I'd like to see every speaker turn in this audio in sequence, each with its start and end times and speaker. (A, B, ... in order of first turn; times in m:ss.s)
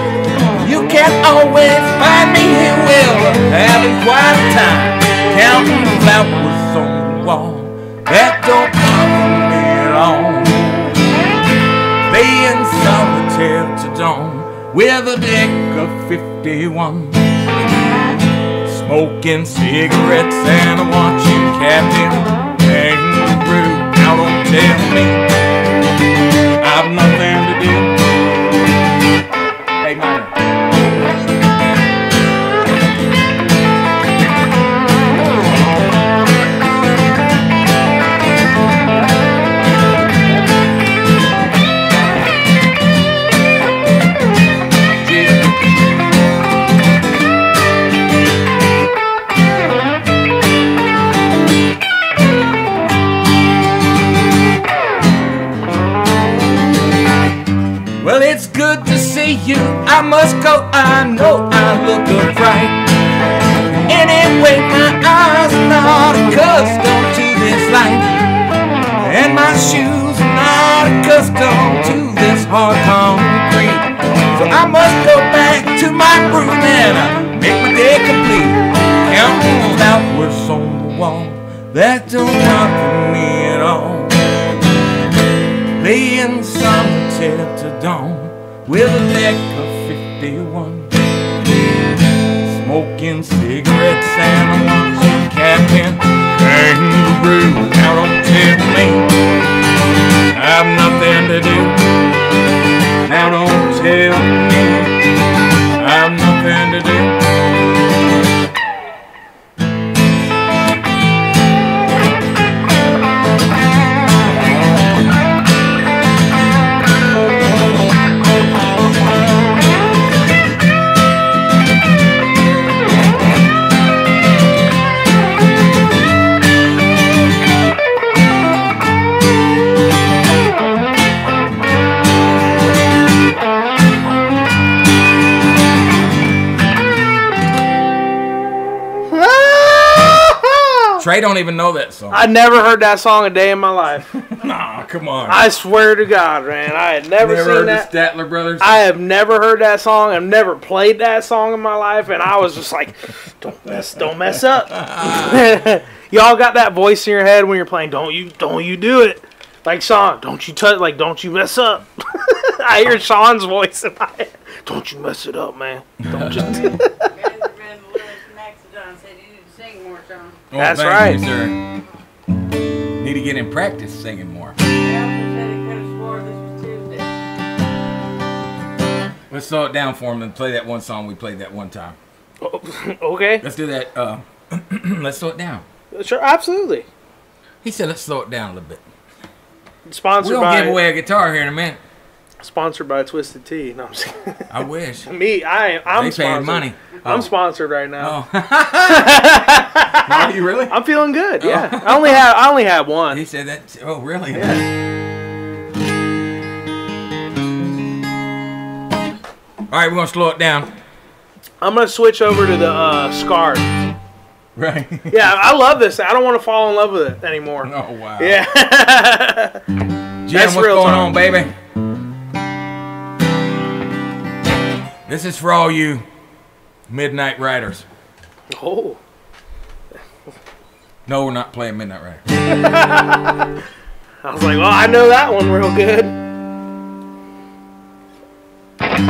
0:00.6-0:11.0 A
0:12.1-0:17.5 A
0:18.6-0:25.2 A
0:26.6-0:28.0 A
0:29.8-0:30.3 A
0:45.0-0:45.5 A
0:58.0-1:02.8 A
1:03.8-1:08.1 A
1:09.0-1:24.3 A
1:25.8-1:30.9 A
1:32.4-1:39.1 A
1:40.3-1:41.9 A
1:43.0-1:45.0 A
1:45.8-1:47.2 A
2:19.1-2:21.0 B
2:21.0-2:22.2 A
2:22.1-2:24.1 B
2:24.2-2:25.4 A
2:25.3-2:27.9 B
2:27.2-2:28.8 A
2:28.6-2:46.9 B
2:34.7-2:35.6 A
2:46.0-2:46.8 A
2:47.0-2:50.4 C
2:50.5-2:51.6 A
2:50.6-2:51.2 B
2:53.0-2:54.5 A
2:54.8-2:57.1 C
2:59.3-3:02.0 A
3:02.4-3:03.4 B
3:03.4-3:05.6 A
3:05.9-3:06.8 B
3:07.6-3:08.8 A
3:09.8-3:10.8 B
3:10.2-3:11.8 A
3:12.4-3:14.5 B
3:14.5-3:15.1 A
3:15.1-3:18.2 B
3:15.9-3:17.3 A
3:18.0-3:19.3 A
3:18.8-3:23.2 B
3:20.0-3:20.8 A
3:21.4-3:22.2 A
3:23.1-3:24.6 A
3:24.3-3:24.7 B
3:29.7-3:30.7 A
3:31.6-3:33.7 B
3:34.6-3:35.2 A
3:35.1-3:39.6 B
3:37.6-3:38.4 A
3:40.2-3:41.5 A
3:40.3-3:41.1 B
3:45.1-3:46.1 A
3:46.9-3:47.8 A
3:48.5-3:49.0 B
3:51.0-3:52.4 A
3:52.5-3:53.4 B
3:54.2-3:56.2 B